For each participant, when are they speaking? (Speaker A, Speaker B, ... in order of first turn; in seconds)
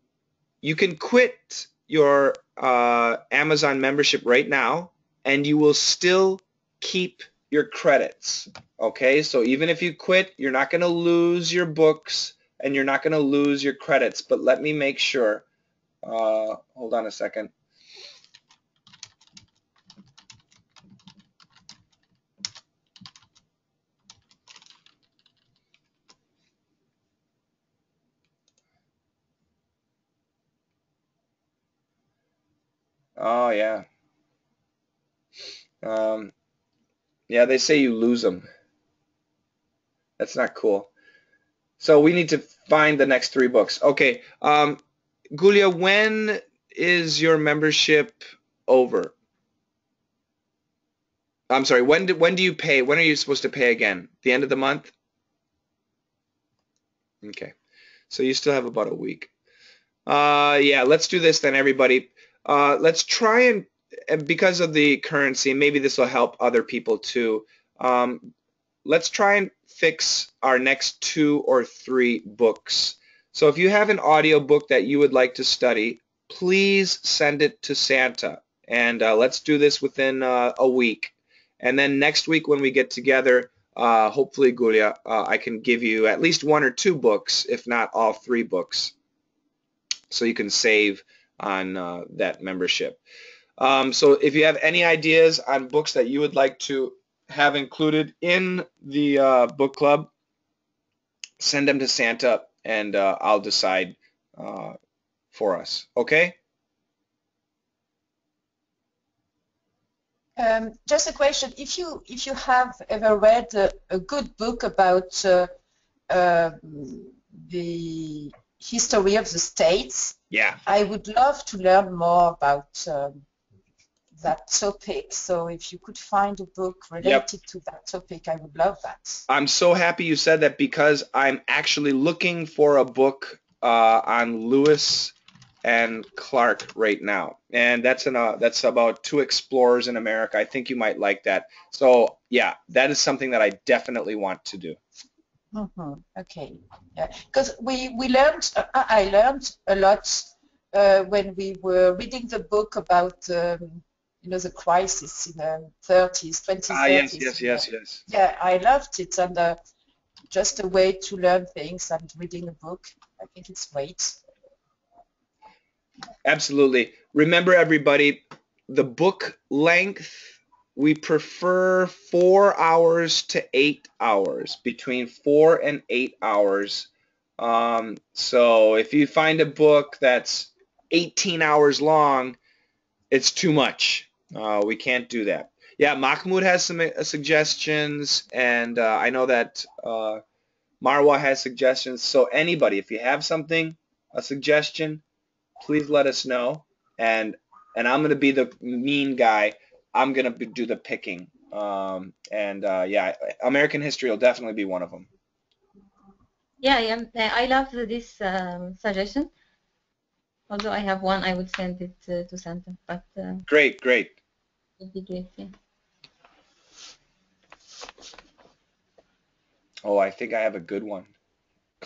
Speaker A: 0.6-15.4, 16.0-17.5, 33.2-33.8, 35.8-36.3, 37.3-38.5, 40.2-40.9, 41.8-44.8, 45.3-49.1, 51.5-54.9, 57.2-57.5, 58.1-59.3, 60.0-68.3, 68.8-88.9, 90.1-93.0, 93.6-100.1, 101.4-104.8, 105.3-106.3, 120.3-120.6, 127.0-127.2, 129.3-144.8, 156.7-158.0, 166.2-176.9, 177.4-182.4, 183.1-190.2, 190.8-195.0, 195.6-205.1, 213.4-214.2, 219.8-221.1
Speaker B: 110.4-115.5, 116.1-123.2, 124.2-129.2, 145.5-159.6, 160.3-164.2
Speaker C: 206.6-209.3, 210.5-213.4, 214.8-215.5